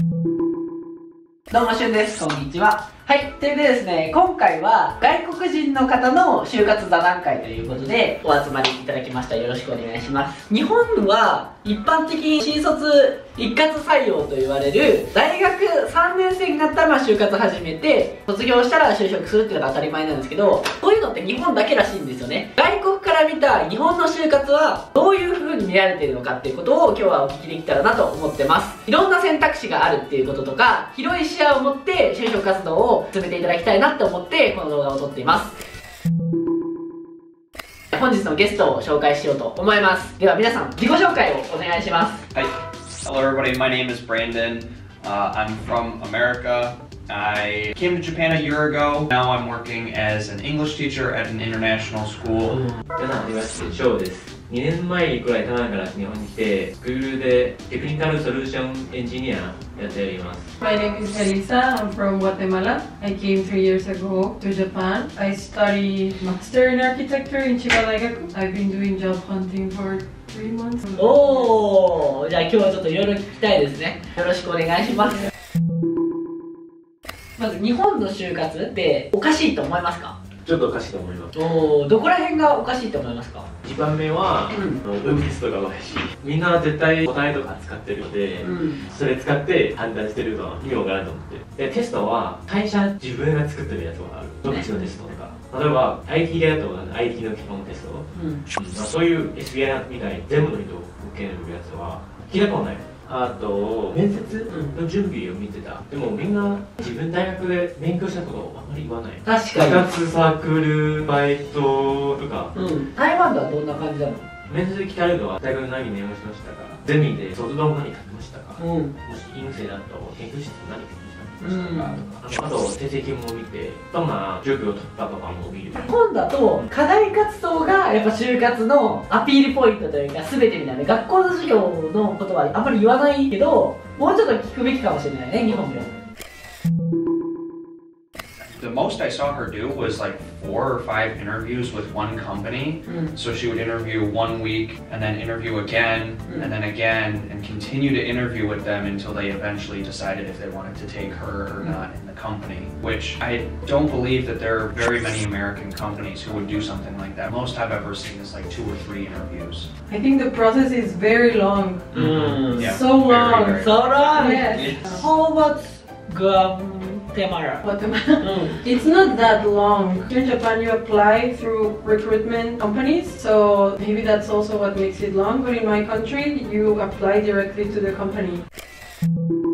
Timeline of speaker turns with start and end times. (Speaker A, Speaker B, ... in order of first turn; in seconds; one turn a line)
Speaker A: 1.5-35.6
Speaker A: 37.9-42.2
Speaker B: 43.0-52.6
Speaker C: 53.0-60.5
Speaker D: 60.6-71.5
Speaker A: 71.0-75.3
Speaker A: 77.4-80.2
Speaker C: 80.4-81.5
Speaker A: 81.3-83.5
Speaker C: 83.6-112.5
Speaker A: 84.5-84.8
Speaker A: 88.4-88.8
Speaker A: 94.5-94.8
Speaker A: 98.1-98.4
Speaker A: 104.5-104.8
Speaker A: 109.2-109.9
Speaker A: 112.5-114.2
Speaker C: 114.5-125.9
Speaker A: 118.6-118.9
Speaker A: 121.4-122.0
Speaker A: 125.7-135.9
Speaker B: 138.5-159.7
Speaker A: 142.8-143.1
Speaker D: 159.9-161.9
Speaker A: 161.9-162.8
Speaker B: 161.9-164.7
Speaker D: 162.6-165.1
Speaker A: 163.4-167.7
Speaker D: 167.6-178.4
Speaker A: 168.2-168.6